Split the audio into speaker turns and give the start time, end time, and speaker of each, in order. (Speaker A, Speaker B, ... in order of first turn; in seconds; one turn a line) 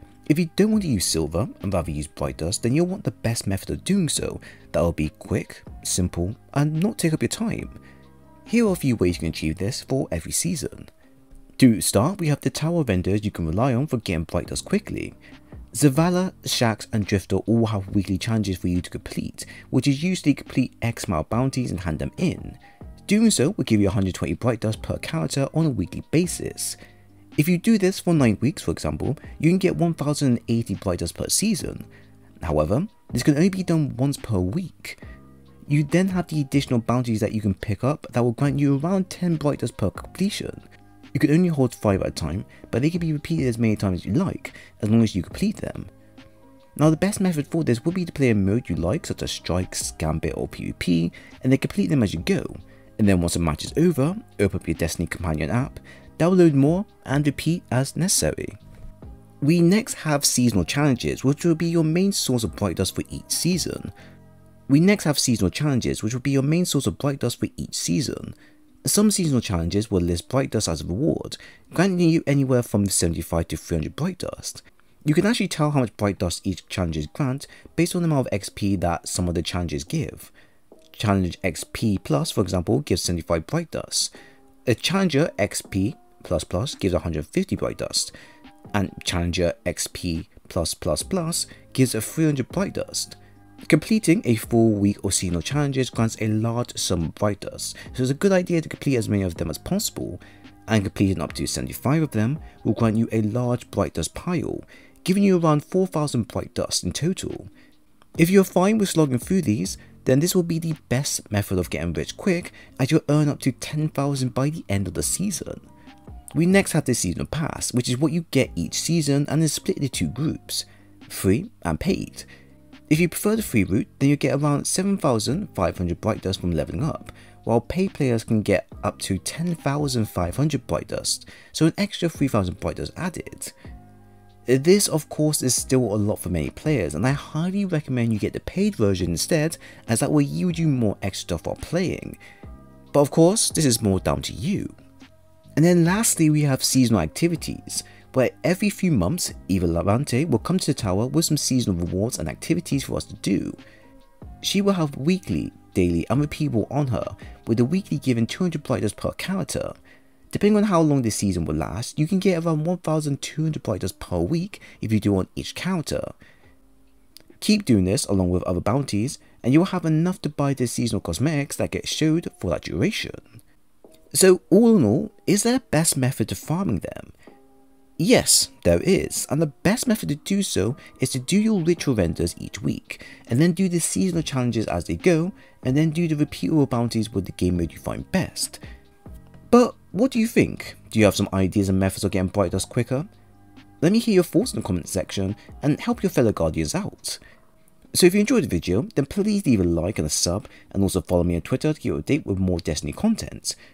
Speaker A: 0.3-7.8
Speaker A: 8.5-10.9
Speaker A: 11.6-15.2
Speaker A: 15.7-26.8
Speaker A: 27.4-31.9
Speaker A: 32.4-35.0
Speaker A: 35.7-45.9
Speaker A: 46.8-58.6
Speaker A: 59.4-63.9
Speaker A: 64.7-80.3
Speaker A: 80.9-84.1
Speaker A: 84.7-88.1
Speaker A: 88.7-107.5
Speaker A: 108.2-115.7
Speaker A: 116.3-122.3
Speaker A: 122.9-133.5
Speaker A: 134.5-142.2
Speaker A: 142.9-144.8
Speaker A: 145.6-153.6
Speaker A: 154.4-159.8
Speaker A: 160.3-166.1
Speaker A: 167.4-173.2
Speaker A: 174.1-177.1
Speaker A: 178.0-188.6
Speaker A: 189.5-193.1
Speaker A: 193.8-197.2
Speaker A: 197.9-203.6